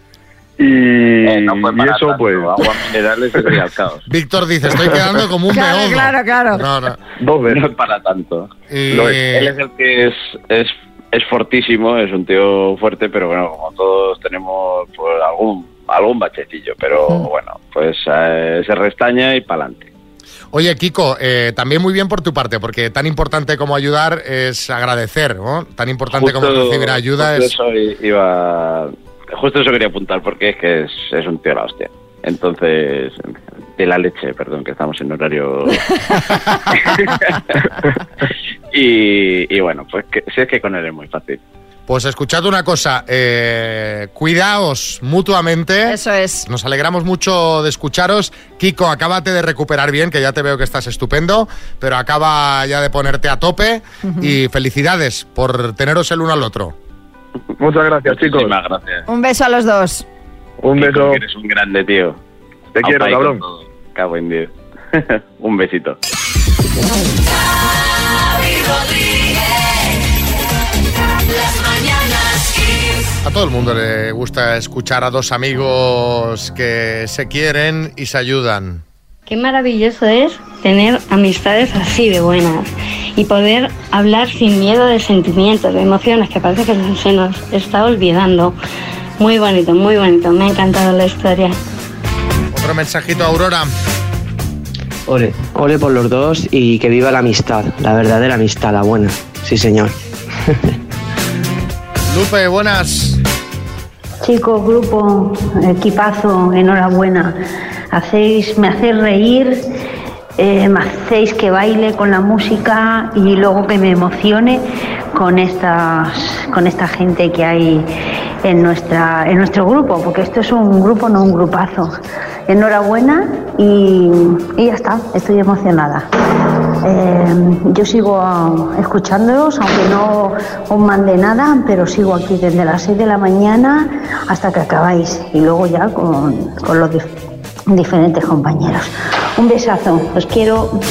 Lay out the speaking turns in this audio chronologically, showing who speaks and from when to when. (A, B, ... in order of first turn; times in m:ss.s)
0:00.6-0:02.6 A
0:01.2-0:04.0 B
0:04.1-0:07.0 C
0:05.5-0:06.6 D
0:07.2-0:07.6 A
0:07.5-0:19.9 B
0:08.7-0:09.5 C
0:20.5-0:27.5 C
0:26.1-0:36.0 B
0:36.7-0:37.6 B
0:38.7-0:41.4 B
0:41.9-0:56.7 C
0:45.9-0:46.4 D
0:54.0-0:54.3 D
0:57.6-0:58.5 A
0:58.0-0:59.0 B
0:59.1-1:00.0 D
1:00.6-1:01.2 A
1:00.7-1:02.2 B
1:02.8-1:03.4 A
1:02.8-1:06.0 B
1:13.2-1:18.8 C
1:19.3-1:28.5 E
1:29.2-1:31.6 E
1:32.5-1:33.7 C
1:35.1-1:40.0 F
1:42.0-1:43.2 C
1:44.2-1:47.4 G
1:47.9-1:49.6 G
1:50.4-1:57.9 G
1:58.4-2:06.1 G
2:06.8-2:17.1 G
2:17.7-2:20.8 G